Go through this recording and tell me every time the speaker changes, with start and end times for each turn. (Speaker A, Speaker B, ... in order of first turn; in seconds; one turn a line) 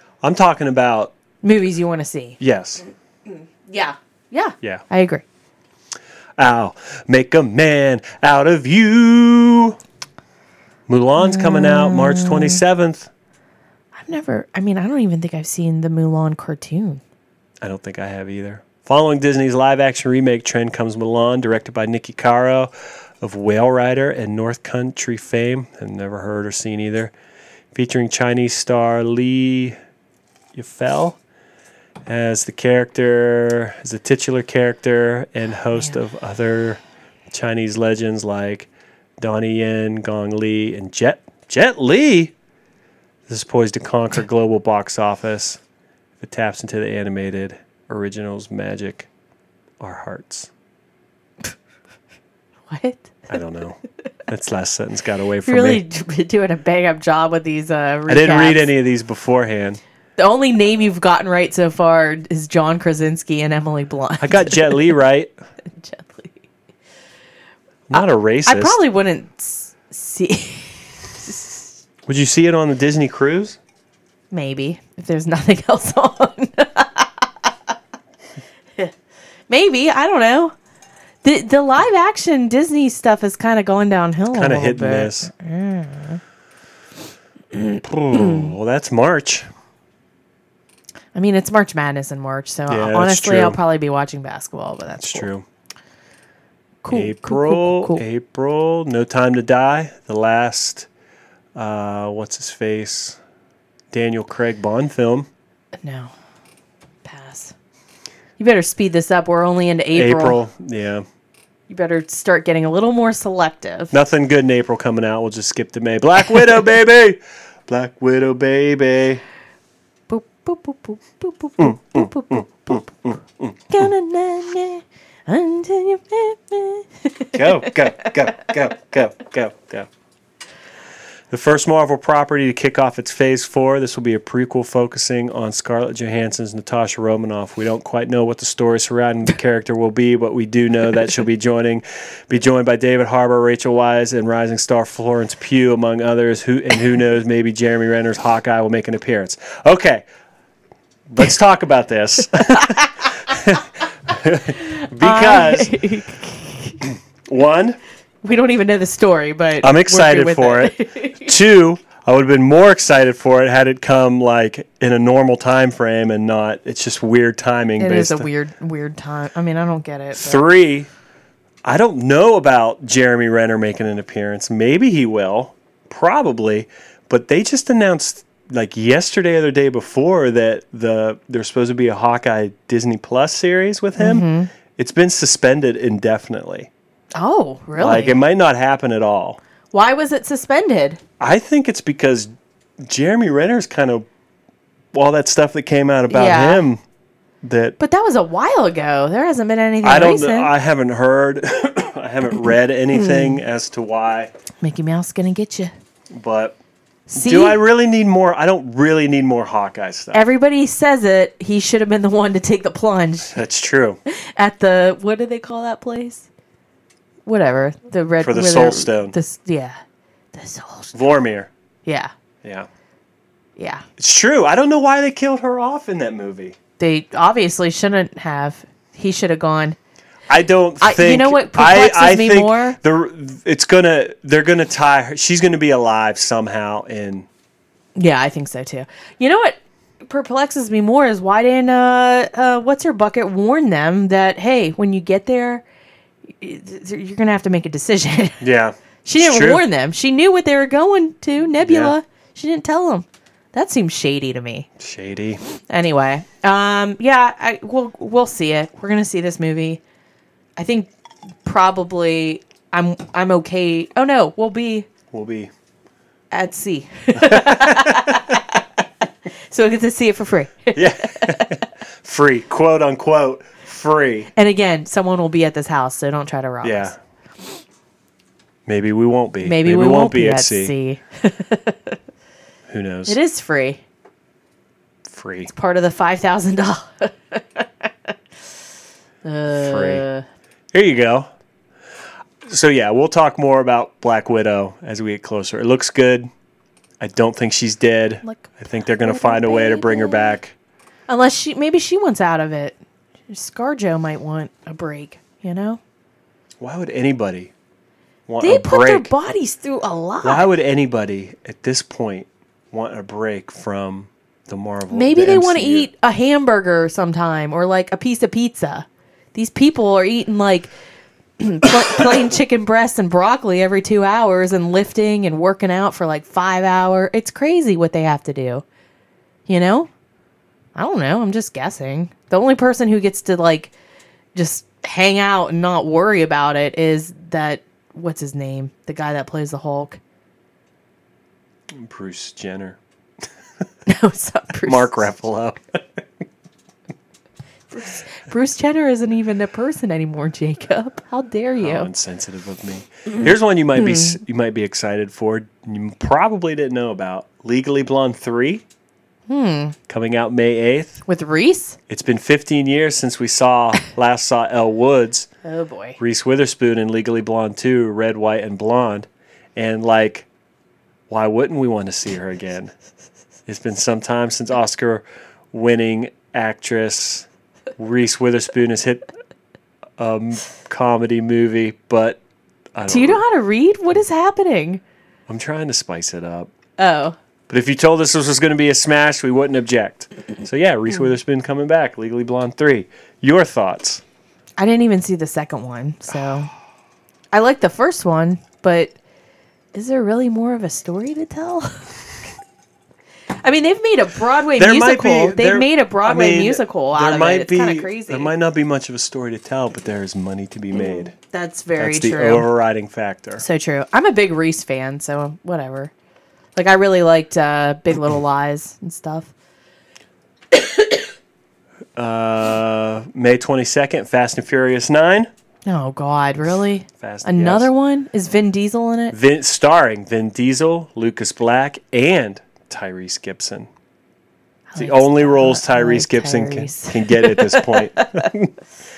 Speaker A: 0.2-1.1
Speaker B: 1.4-2.4
Speaker A: 2.4-2.8
Speaker B: 3.3-5.2
Speaker A: 6.4-9.8
Speaker A: 10.9-13.1
Speaker B: 11.2-12.6
Speaker B: 13.9-17.0
Speaker A: 17.6-27.1
Speaker A: 27.7-29.8
Speaker A: 30.5-31.2
Speaker A: 32.0-38.7
Speaker A: 39.2-42.3
Speaker A: 43.3-45.6
Speaker A: 46.2-49.1
Speaker A: 49.8-50.5
Speaker B: 52.7-53.1
Speaker A: 53.3-55.8
Speaker B: 55.4-58.7
Speaker A: 58.1-59.8
Speaker B: 60.2-64.9
Speaker A: 64.2-65.3
Speaker B: 65.8-66.4
Speaker A: 67.9-68.8
Speaker B: 68.0-71.7
Speaker A: 72.1-73.6
Speaker B: 74.3-77.5
Speaker B: 79.5-80.5
Speaker B: 81.2-86.2
Speaker A: 84.3-85.3
Speaker B: 87.5-88.5
Speaker A: 87.8-89.5
Speaker B: 91.1-95.3
Speaker A: 92.7-93.6
Speaker A: 95.0-95.4
Speaker B: 96.8-98.0
Speaker A: 96.9-100.9
Speaker A: 101.5-103.2
Speaker A: 103.9-105.3
Speaker B: 105.8-106.1
Speaker B: 107.0-107.5
Speaker B: 108.4-110.4
Speaker A: 109.9-111.0
Speaker B: 111.7-113.9
Speaker A: 113.9-119.2
Speaker B: 120.1-122.9
Speaker A: 121.6-123.9
Speaker B: 123.7-128.1
Speaker A: 127.3-129.9
Speaker A: 131.3-150.1
Speaker A: 151.1-155.8
Speaker B: 152.5-152.9
Speaker B: 154.6-156.8
Speaker A: 157.2-157.8
Speaker B: 158.2-161.3
Speaker A: 159.6-168.3
Speaker B: 167.8-170.4
Speaker A: 170.1-170.9
Speaker A: 171.6-186.7
Speaker B: 184.0-184.5
Speaker B: 187.2-188.2
Speaker A: 187.8-189.4
Speaker B: 189.7-191.0
Speaker A: 191.2-192.3
Speaker A: 192.8-194.1
Speaker A: 194.9-196.8
Speaker B: 196.1-196.6
Speaker A: 197.4-197.8
Speaker B: 197.8-200.5
Speaker A: 199.8-204.3
Speaker B: 202.9-203.4
Speaker B: 204.6-205.7
Speaker A: 206.1-206.6
Speaker B: 207.1-207.6
Speaker A: 207.1-210.3
Speaker B: 210.1-213.3
Speaker A: 213.3-214.0
Speaker B: 214.1-216.3
Speaker B: 217.2-219.8
Speaker A: 218.2-219.1
Speaker B: 220.3-221.0
Speaker A: 220.9-221.5
Speaker B: 221.8-222.1
Speaker A: 222.4-222.7
Speaker B: 223.6-223.8
Speaker A: 224.0-226.6
Speaker B: 226.8-229.8
Speaker A: 230.3-237.3
Speaker B: 230.8-232.8
Speaker B: 237.9-245.6
Speaker B: 246.4-248.4
Speaker A: 248.4-249.6
Speaker B: 249.0-254.7
Speaker A: 251.6-251.9
Speaker A: 254.8-255.4
Speaker B: 255.7-259.8
Speaker B: 260.6-260.9
Speaker B: 261.4-264.9
Speaker A: 265.1-265.5
Speaker B: 266.3-268.6
Speaker A: 267.1-268.4
Speaker B: 269.5-271.6
Speaker A: 270.7-274.3
Speaker B: 274.3-276.9
Speaker A: 276.6-276.9
Speaker A: 278.6-280.7
Speaker B: 279.4-282.0
Speaker A: 282.7-283.2
Speaker B: 283.1-283.8
Speaker A: 285.1-285.5
Speaker B: 285.5-288.1
Speaker B: 289.2-290.2
Speaker A: 289.5-290.1
Speaker A: 290.7-291.3
Speaker A: 292.4-296.3
Speaker A: 297.0-300.5
Speaker B: 298.2-300.4
Speaker B: 301.1-302.8
Speaker B: 303.3-305.8
Speaker A: 306.6-307.5
Speaker A: 308.3-309.1
Speaker B: 308.4-310.5
Speaker A: 310.2-315.9
Speaker B: 314.9-320.7
Speaker B: 321.4-328.6
Speaker B: 329.5-329.9
Speaker B: 330.8-333.7
Speaker B: 334.3-340.0
Speaker A: 341.7-342.8
Speaker B: 343.9-345.0
Speaker A: 344.6-346.0
Speaker B: 347.7-351.9
Speaker A: 351.6-358.6
Speaker B: 353.8-354.1
Speaker B: 359.3-359.8
Speaker A: 359.9-361.0
Speaker B: 361.1-361.8
Speaker A: 361.9-365.3
Speaker B: 365.4-366.0
Speaker A: 366.0-370.3
Speaker A: 371.1-372.7
Speaker A: 373.5-377.3
Speaker A: 377.8-379.1
Speaker A: 380.0-382.2
Speaker A: 382.7-383.2
Speaker B: 382.9-384.8
Speaker A: 385.3-386.5
Speaker B: 386.8-387.1
Speaker A: 387.5-394.0
Speaker B: 394.6-396.5
Speaker B: 397.3-398.9
Speaker B: 399.7-401.9
Speaker B: 403.4-408.3
Speaker A: 404.6-411.1
Speaker B: 410.7-412.5
Speaker A: 411.8-413.4
Speaker B: 413.4-415.9
Speaker B: 416.6-419.3
Speaker A: 421.9-425.3
Speaker B: 425.6-429.1
Speaker A: 427.0-427.7
Speaker A: 429.1-433.7
Speaker B: 434.7-438.3
Speaker A: 434.8-438.5